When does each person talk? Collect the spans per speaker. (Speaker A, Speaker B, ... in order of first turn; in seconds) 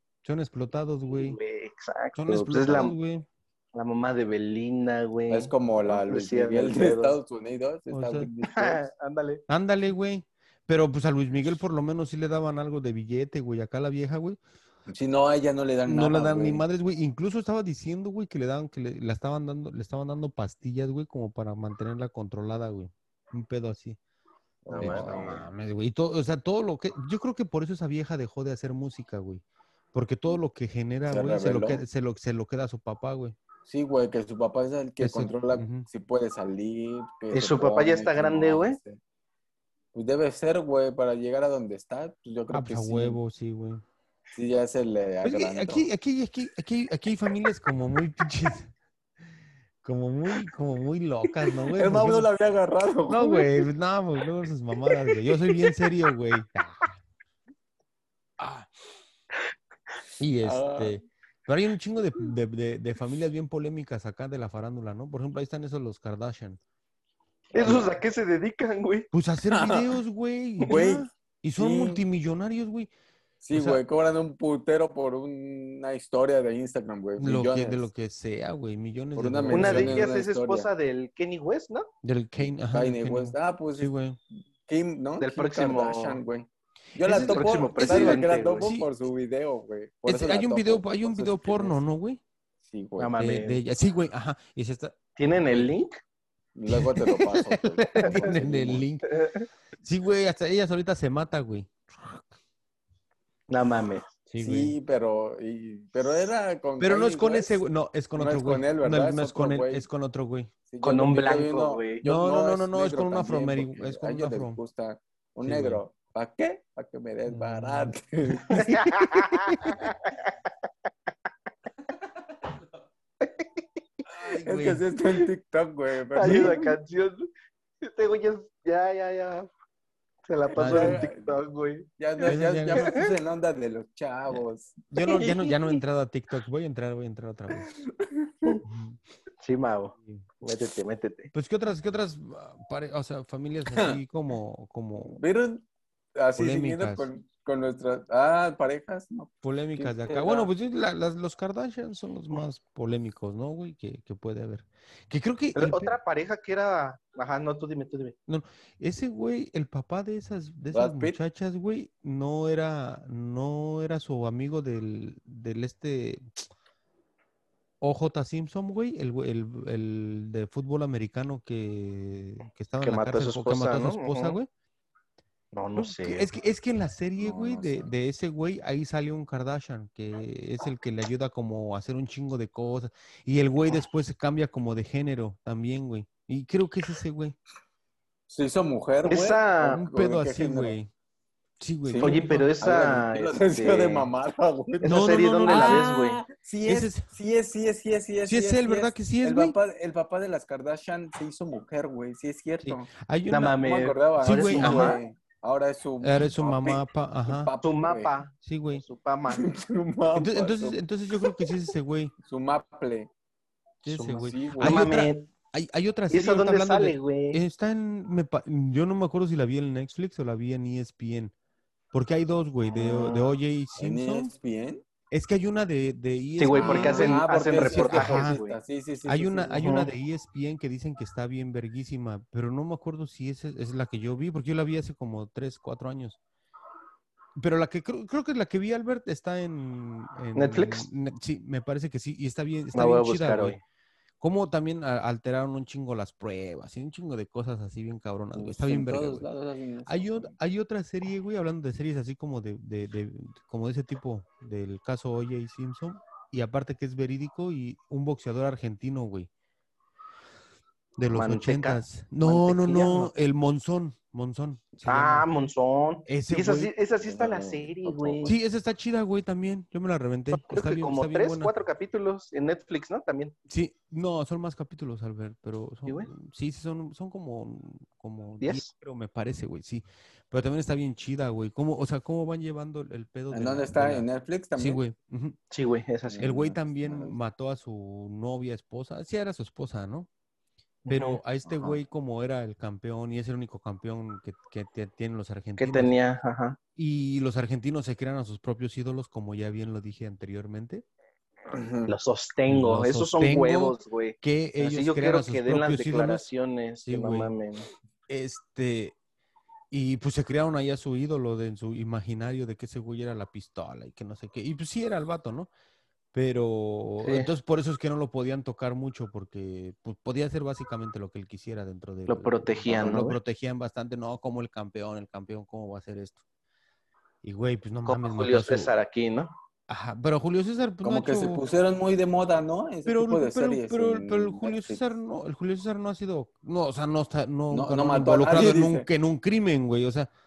Speaker A: 0.2-1.4, 2.1-3.2, 7.9-8.3, 9.5-14.4, 15.9-24.0, 24.7-29.4, 29.9-33.4, 35.0-35.9, 42.5-43.8, 45.2-48.7, 49.8-52.3, 53.1-56.9, 58.4-58.7, 60.2-66.6, 67.6-67.9, 69.1-72.9, 73.5-73.8, 77.2-80.0, 82.0-84.2, 87.0-88.9, 90.0-92.2, 93.2-95.0, 96.7-99.1, 99.8-102.3, 104.3-104.7, 106.8-110.5, 112.0-114.6, 115.4-115.8, 117.3-119.8, 124.1-124.9, 126.2-126.6, 130.6-131.0, 132.2-132.9, 134.3-137.7, 138.6-139.0, 141.3-145.2, 146.4-147.1, 149.4-155.9, 158.3-166.5, 167.8-174.5, 175.8-187.3, 189.7-190.9, 191.6-192.5, 194.8-195.9, 196.7-197.1, 198.3-199.5, 202.6-203.6, 204.2-205.0, 206.0-207.5, 208.4-208.8, 210.1-212.1, 213.8-221.3, 221.9-224.3, 225.1-228.4, 229.1-236.2, 237.3-243.6, 244.2-249.2, 249.9-259.3, 261.0-265.2, 266.1-266.7, 268.2-271.5, 273.5-284.0, 284.6-285.4, 286.2-290.1, 290.9-295.9, 296.8-300.8, 302.5-306.2, 306.8-307.3, 308.1-308.9, 309.7-315.5, 316.1-326.2, 327.2-328.7, 329.7-331.4, 332.9-340.1
Speaker B: 1.1-2.9, 3.7-7.2, 8.4-9.4, 37.3-38.8, 54.8-55.9, 67.5-69.1, 79.5-81.9, 85.2-86.2, 87.1-88.7, 93.0-93.6, 95.2-96.0, 99.1-99.5, 103.5-104.1, 110.8-112.0, 118.5-120.3, 123.2-123.6, 126.1-127.3, 127.8-129.5, 130.2-133.1, 135.0-135.5, 139.4-141.3, 155.5-158.1, 172.8-174.4, 175.5-176.3, 189.0-189.8, 192.0-194.1, 194.8-196.2, 203.3-205.0, 207.6-209.5, 214.6-215.3, 216.1-217.4, 226.4-228.6, 229.6-229.9, 240.3-240.8, 242.7-243.6, 261.1-263.1, 264.9-268.3, 270.3-273.3, 278.4-278.7, 285.5-286.4, 290.9-291.2, 295.6-296.6, 301.9-307.7, 317.0-317.3, 322.1-323.2, 327.9-329.3
Speaker C: 5.3-8.8, 14.9-16.6, 24.6-25.4, 31.1-31.8, 33.6-39.0, 39.9-43.2, 44.3-45.9, 51.7-53.5, 60.4-61.0, 69.5-70.0, 70.6-72.0, 73.4-77.9, 79.2-80.7, 82.7-83.9, 84.7-91.8, 92.6-93.2, 96.5-98.8, 104.4-107.6, 108.1-109.9, 110.7-118.9, 124.2-126.6, 130.6-131.3, 132.0-135.5, 137.6-138.3, 143.7-144.0, 145.1-145.6, 146.2-150.5, 160.7-161.2, 177.2-177.9, 188.3-190.8, 191.8-202.9, 203.6-208.1, 209.3-211.5, 212.2-213.1, 213.9-214.9, 222.9-223.2, 223.8-224.8, 226.5-229.7, 248.3-250.3, 267.0-268.4, 283.3-284.8, 286.1-287.1, 291.4-291.8, 301.5-301.9, 330.8-334.8, 337.5-338.9